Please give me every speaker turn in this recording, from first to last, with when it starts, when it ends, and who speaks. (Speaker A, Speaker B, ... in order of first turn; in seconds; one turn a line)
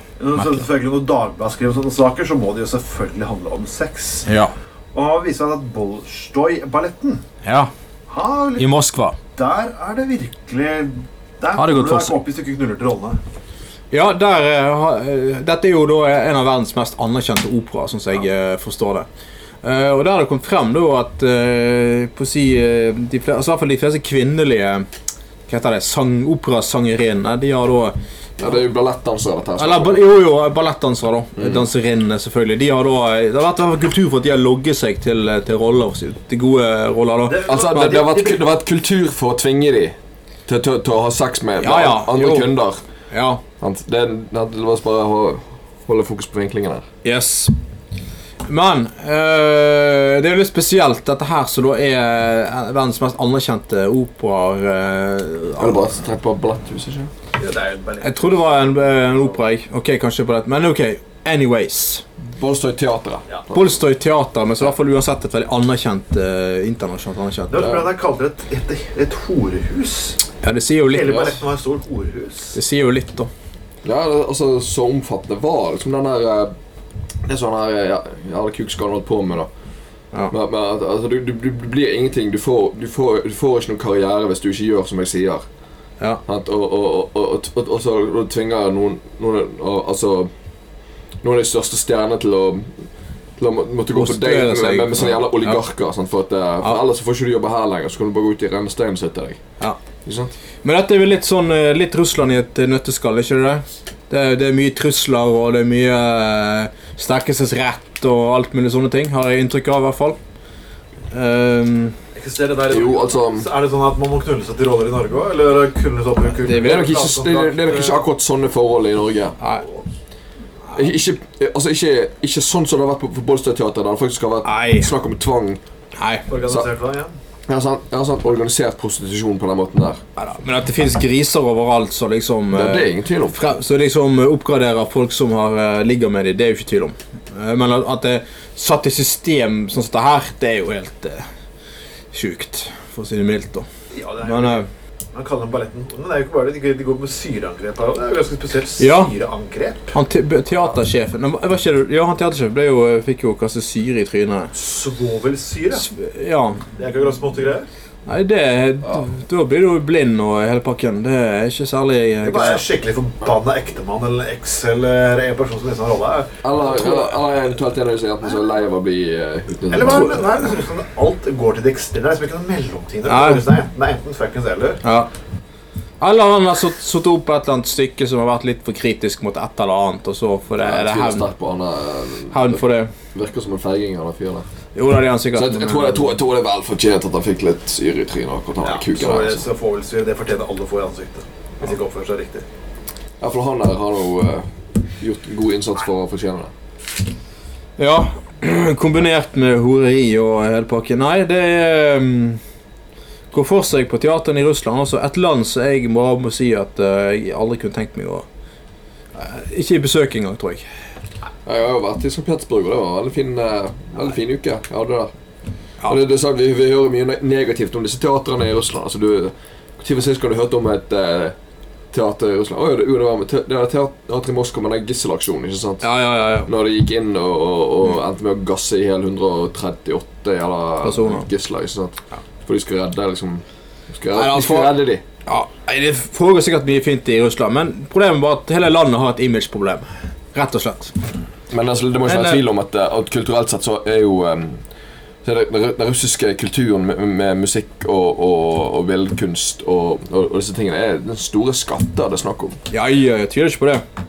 Speaker A: 0.2-4.3
Speaker B: 0.4-0.6
Speaker B: 4.2-4.5
Speaker A: 4.9-7.2
Speaker B: 7.4-7.7
Speaker A: 8.1-8.7
Speaker B: 8.6-9.2
Speaker A: 9.3-13.2
Speaker B: 11.6-12.1
Speaker B: 13.9-19.1
Speaker B: 19.6-24.8
Speaker B: 25.5-28.4
Speaker C: 28.4-30.0
Speaker B: 29.6-38.0
Speaker A: 37.3-38.4
Speaker C: 37.5-39.9
Speaker C: 40.5-42.8
Speaker B: 41.6-42.5
Speaker B: 43.1-43.4
Speaker C: 43.6-46.8
Speaker B: 47.0-47.5
Speaker B: 48.5-55.9
Speaker C: 55.6-57.1
Speaker A: 57.4-59.3
Speaker B: 58.0-62.0
Speaker C: 62.3-63.6
Speaker B: 63.5-67.9
Speaker A: 67.5-70.2
Speaker B: 70.4-71.4
Speaker A: 70.8-72.6
Speaker B: 72.5-73.3
Speaker C: 73.8-76.5
Speaker C: 77.2-79.5
Speaker C: 80.3-85.4
Speaker C: 86.2-90.3
Speaker C: 91.2-92.7
Speaker C: 93.4-99.4
Speaker B: 93.9-95.6
Speaker C: 100.0-100.3
Speaker B: 100.6-110.2
Speaker B: 111.1-111.9
Speaker A: 112.1-118.0
Speaker C: 112.7-113.5
Speaker B: 116.5-116.8
Speaker C: 116.6-119.4
Speaker B: 119.4-119.7
Speaker C: 120.7-125.6
Speaker B: 124.4-124.9
Speaker B: 126.0-126.2
Speaker A: 126.3-127.1
Speaker C: 127.5-130.0
Speaker B: 130.2-141.2
Speaker C: 132.5-133.4
Speaker B: 142.1-143.7
Speaker A: 143.9-149.9
Speaker B: 144.2-144.7
Speaker B: 148.8-149.1
Speaker B: 149.9-154.5
Speaker A: 154.5-155.9
Speaker B: 155.7-156.6
Speaker A: 156.7-157.7
Speaker B: 158.1-162.6
Speaker A: 162.2-167.1
Speaker C: 166.4-170.2
Speaker A: 169.7-174.8
Speaker B: 173.1-173.4
Speaker B: 174.8-175.1
Speaker B: 176.0-181.3
Speaker C: 180.6-182.6
Speaker B: 182.3-182.9
Speaker C: 183.1-184.4
Speaker B: 184.7-186.1
Speaker C: 185.3-189.4
Speaker A: 188.6-192.4
Speaker C: 193.2-196.5
Speaker B: 197.8-202.4
Speaker B: 203.3-208.2
Speaker B: 209.1-210.6
Speaker C: 211.4-215.1
Speaker C: 215.8-221.3
Speaker C: 221.9-225.9
Speaker B: 225.8-226.5
Speaker C: 226.4-235.0
Speaker B: 230.8-231.3
Speaker B: 234.1-240.9
Speaker C: 241.5-244.6
Speaker B: 242.1-242.4
Speaker C: 245.2-252.6
Speaker B: 252.7-253.8